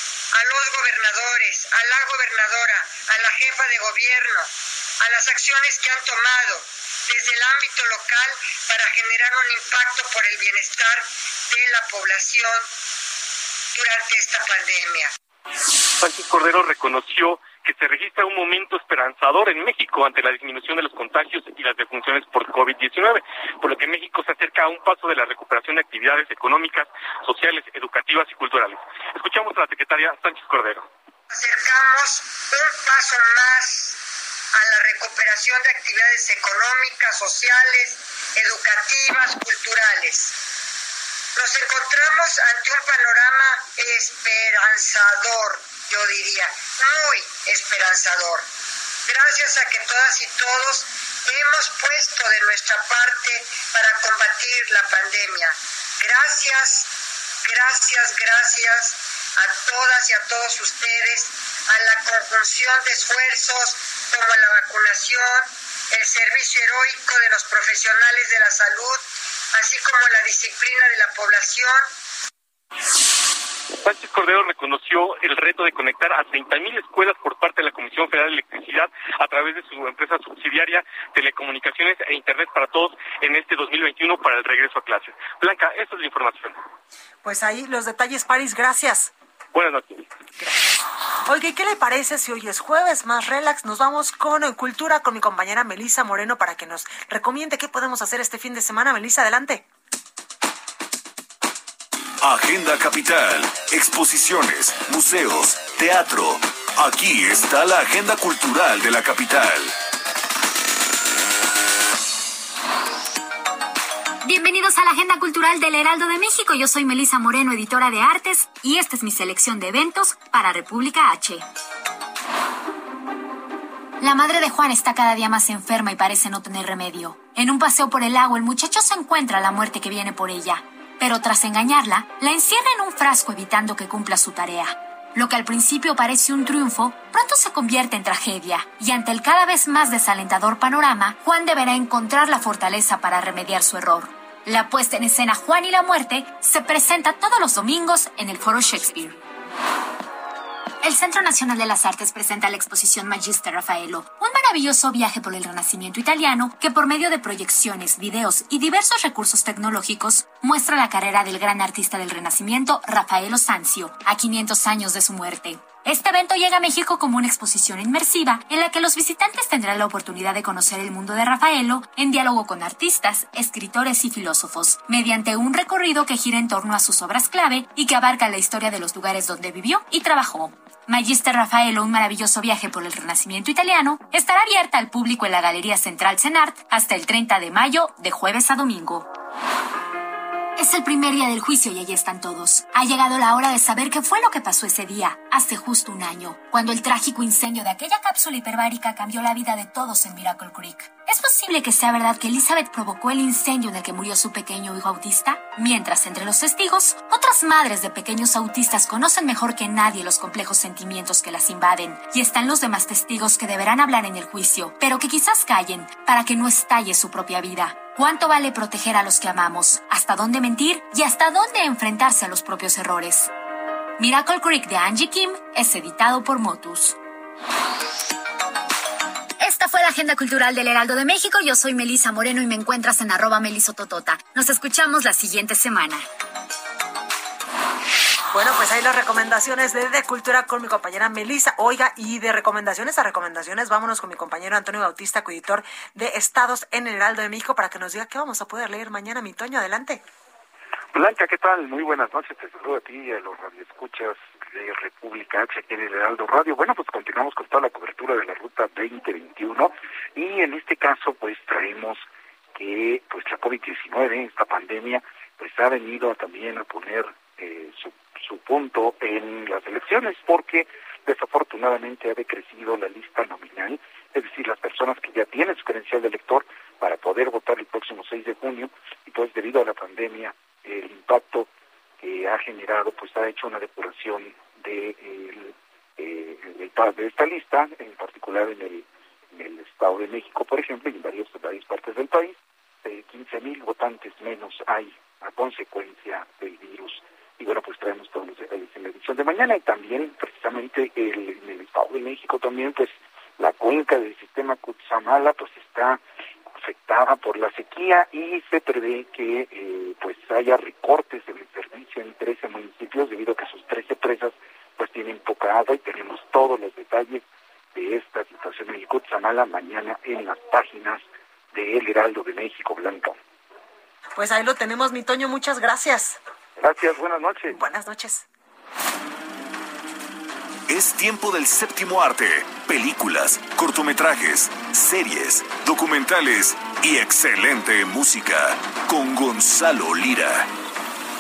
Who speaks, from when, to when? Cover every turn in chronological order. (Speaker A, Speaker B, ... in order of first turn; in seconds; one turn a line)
Speaker A: 0.3-12.7
Speaker A: 13.7-15.1
Speaker B: 16.0-30.9
Speaker A: 31.3-34.0
Speaker A: 34.5-40.4
Speaker A: 41.4-48.5
Speaker A: 49.1-56.9
Speaker A: 57.4-71.9
Speaker B: 73.8-86.6
Speaker C: 87.2-89.1
Speaker B: 89.5-90.1
Speaker C: 90.4-99.7
Speaker D: 102.2-109.7
Speaker E: 114.2-121.5
Speaker E: 124.0-149.2
Speaker E: 150.8-189.1
Speaker E: 190.6-223.3
Speaker E: 224.0-227.0
Speaker E: 229.4-236.1
Speaker C: 238.3-250.0
Speaker F: 250.9-262.0
Speaker F: 262.6-306.0
Speaker F: 306.6-317.2
Speaker F: 317.8-323.1
Speaker C: 324.2-326.2
Speaker F: 326.6-327.6
Speaker C: 327.5-328.2
Speaker D: 330.7-340.5